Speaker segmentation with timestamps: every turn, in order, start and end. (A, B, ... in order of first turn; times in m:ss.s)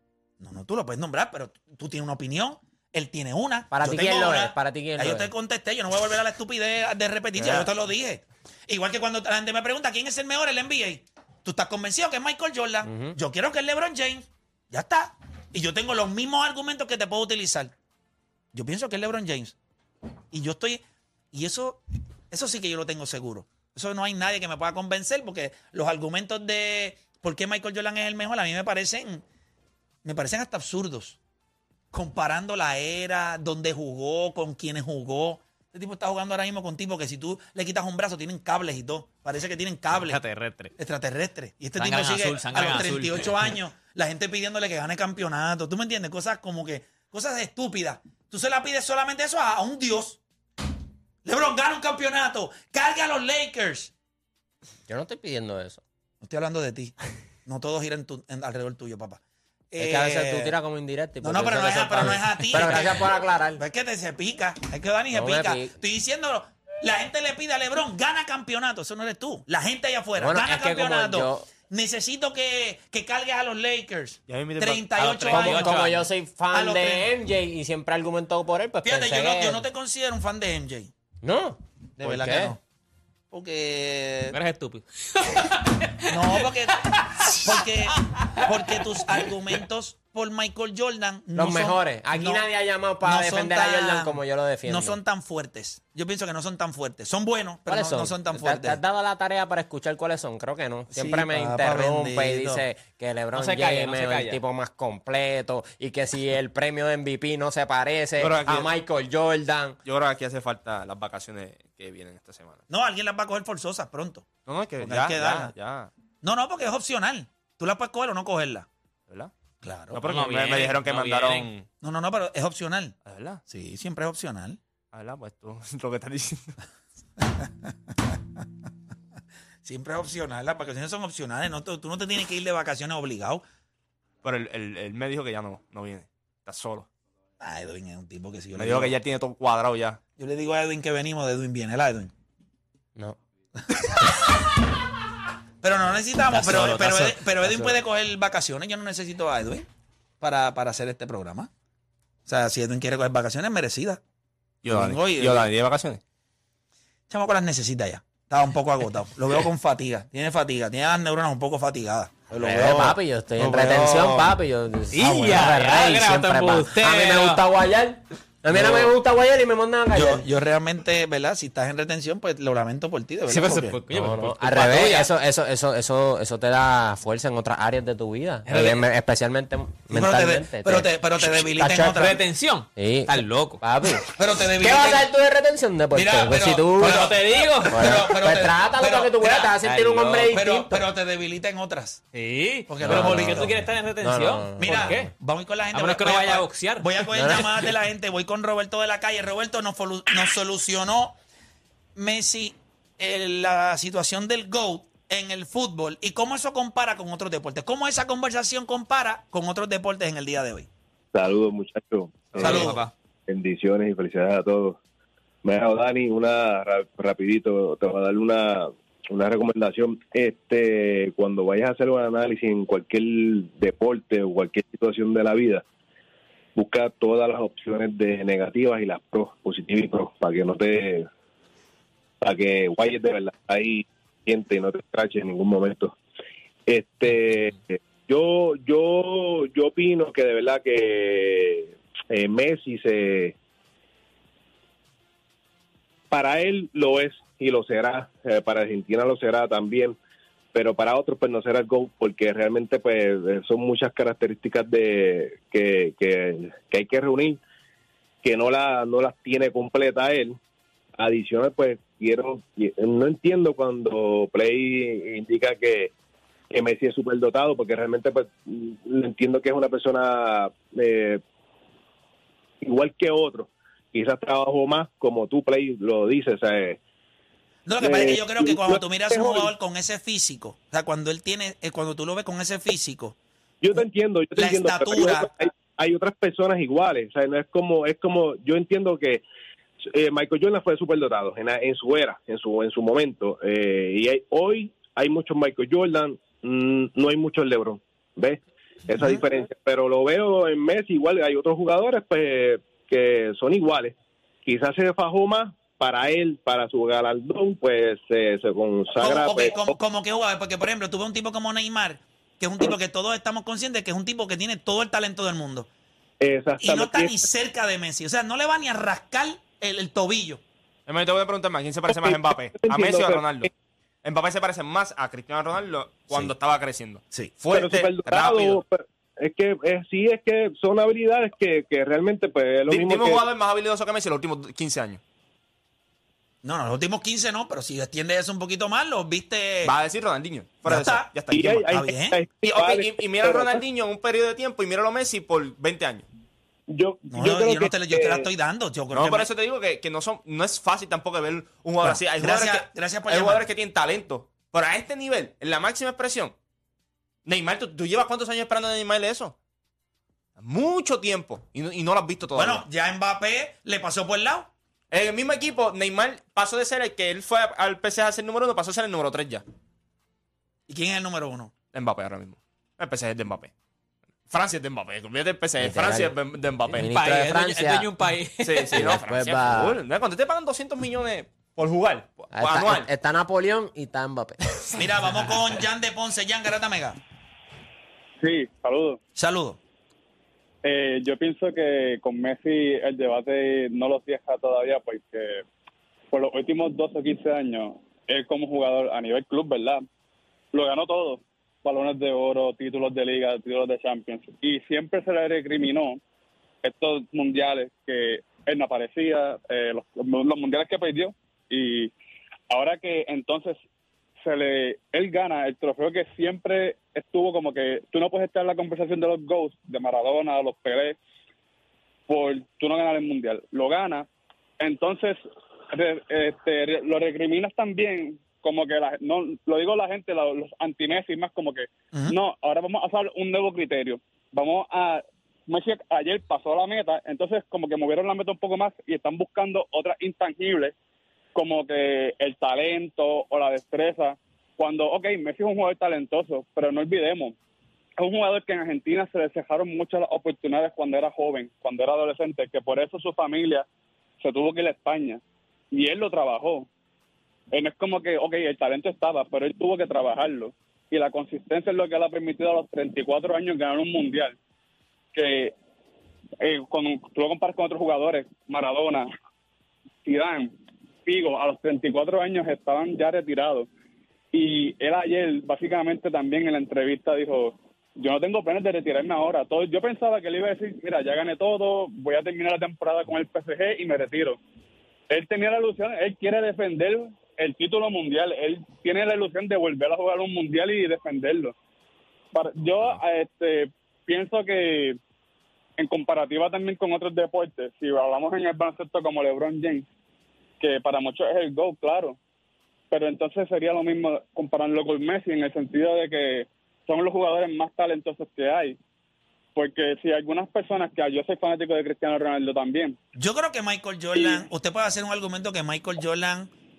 0:00.4-0:17.7 A
0:03.7-0:05.3 B
0:07.4-0:07.7 B
0:12.8-0:13.2 B
0:18.5-0:19.6 A
0:20.3-0:20.8 A
0:21.3-0:21.8 A
0:22.3-0:29.2 A
0:30.0-0:31.2 A
0:31.9-0:40.2 A
0:39.9-0:40.7 C
0:40.8-0:50.2 A
0:41.8-0:43.3 C
0:51.2-0:53.9 A
0:54.9-0:55.8 B
0:56.2-0:56.9 A
0:57.4-0:59.2 A
0:59.7-1:00.6 A
0:59.8-1:03.6 B
1:01.2-1:15.9 A
1:05.1-1:05.7 B
1:10.2-1:11.5 B
1:14.3-1:14.9 D
1:15.0-1:16.0 C
1:15.3-1:19.6 B
1:16.5-1:17.1 A
1:18.8-1:20.9 A
1:21.2-1:22.5 B
1:22.0-1:22.6 A
1:23.3-1:24.4 A
1:24.3-1:29.3 C
1:26.1-1:32.5 A
1:31.4-1:35.0 B
1:33.0-1:38.8 A
1:37.7-1:49.8 B
1:40.9-1:42.6 A
1:43.3-1:44.4 C
1:48.2-1:48.7 D
1:49.8-1:52.6 D
1:52.7-1:55.5 A
1:54.5-1:55.9 D
1:56.2-1:58.7 A
1:59.6-2:00.0 A
1:59.9-2:01.6 D
2:00.1-2:01.5 C
2:01.8-2:03.0 A
2:03.0-2:03.4 D
2:03.5-2:04.6 A
2:04.9-2:06.6 D
2:09.6-2:13.4 A
2:14.2-2:16.9 D
2:17.4-2:19.0 A
2:18.6-2:20.0 D
2:20.2-2:22.1 A
2:23.7-2:24.2 A
2:25.6-2:29.7 A
2:26.3-2:27.1 C
2:30.2-2:31.5 A
2:32.3-2:34.0 A
2:34.6-2:36.0 D
2:34.6-2:35.5 A
2:37.1-2:44.2 A
2:42.4-2:50.2 B
2:44.9-2:47.4 C
2:45.0-2:45.5 A
2:48.5-2:48.9 A
2:49.9-2:53.8 A
2:53.3-2:55.1 C
2:53.9-3:02.2 B
2:58.5-2:58.8 C
2:59.9-3:02.2 A
3:01.8-3:03.6 C
3:02.8-3:07.1 B
3:04.2-3:05.1 A
3:05.9-3:09.5 A
3:06.8-3:08.1 C
3:07.7-3:10.8 B
3:09.6-3:10.5 C
3:10.3-3:12.0 A
3:12.1-3:15.1 C
3:12.7-3:13.5 A
3:12.8-3:15.1 B
3:14.6-3:21.2 A
3:15.7-3:17.1 C
3:17.1-3:17.4 B
3:22.0-3:30.7 A
3:31.1-3:34.8 E
3:32.4-3:32.9 D
3:32.4-3:32.8 A
3:35.4-3:45.6 E
3:46.6-3:51.1 E
3:52.2-3:56.0 E
3:56.7-4:03.4 E
4:06.1-4:10.0 E
4:10.5-4:17.4 E
4:18.2-4:20.4 E
4:21.0-4:25.9 E
4:26.5-4:31.2 E
4:32.6-4:36.8 E
4:37.6-4:43.1 A
4:37.8-4:39.5 E
4:43.6-4:49.2 E
4:44.4-4:45.3 A
4:49.9-5:09.7 E
5:09.0-5:15.7 A
5:16.2-5:17.3 E
5:16.6-5:20.4 A
5:20.9-5:23.5 D
5:21.9-5:23.5 E
5:24.0-5:28.6 D
5:27.5-5:33.2 E
5:32.7-5:35.0 D
5:36.4-5:39.7 A
5:39.6-5:41.7 D
5:40.6-5:42.2 A
5:41.3-5:43.6 E
5:42.4-5:46.1 D
5:46.7-5:48.3 E
5:47.1-5:49.3 A
5:48.9-5:56.4 D
5:51.8-5:53.4 A
5:57.2-5:59.4 D
6:00.4-6:02.6 D
6:02.4-6:04.5 A
6:04.9-6:09.4 D
6:10.7-6:11.5 A
6:11.7-6:13.5 D
6:14.3-6:16.9 D
6:15.6-6:16.1 B
6:16.7-6:17.9 B
6:16.7-6:18.9 C
6:18.4-6:22.9 D
6:18.7-6:19.8 B
6:22.3-6:24.4 B
6:24.8-6:27.0 A
6:28.2-6:29.0 F
6:29.2-6:29.6 A
6:30.6-6:35.4 F
6:36.1-6:39.8 F
6:40.5-6:46.0 F
6:46.6-6:51.9 F
6:52.5-6:53.6 F
6:54.2-7:01.0 F
7:02.1-7:04.0 F
7:04.6-7:05.2 F
7:05.7-7:20.7 F
7:21.4-7:27.4 F
7:28.0-7:33.6 F
7:34.2-7:36.7 F
7:37.5-7:44.4 F
7:45.1-7:45.5 F
7:46.4-7:49.1 F
7:50.0-7:50.5 F
7:51.0-7:53.7 F
7:54.3-8:04.4 F
8:05.1-8:11.5 F
8:12.3-8:15.0 F
8:15.8-8:19.9 F
8:20.6-8:22.2 F
8:22.9-8:28.8 F
8:29.6-8:33.0 F
8:33.2-8:36.5 A
8:34.1-8:34.5 F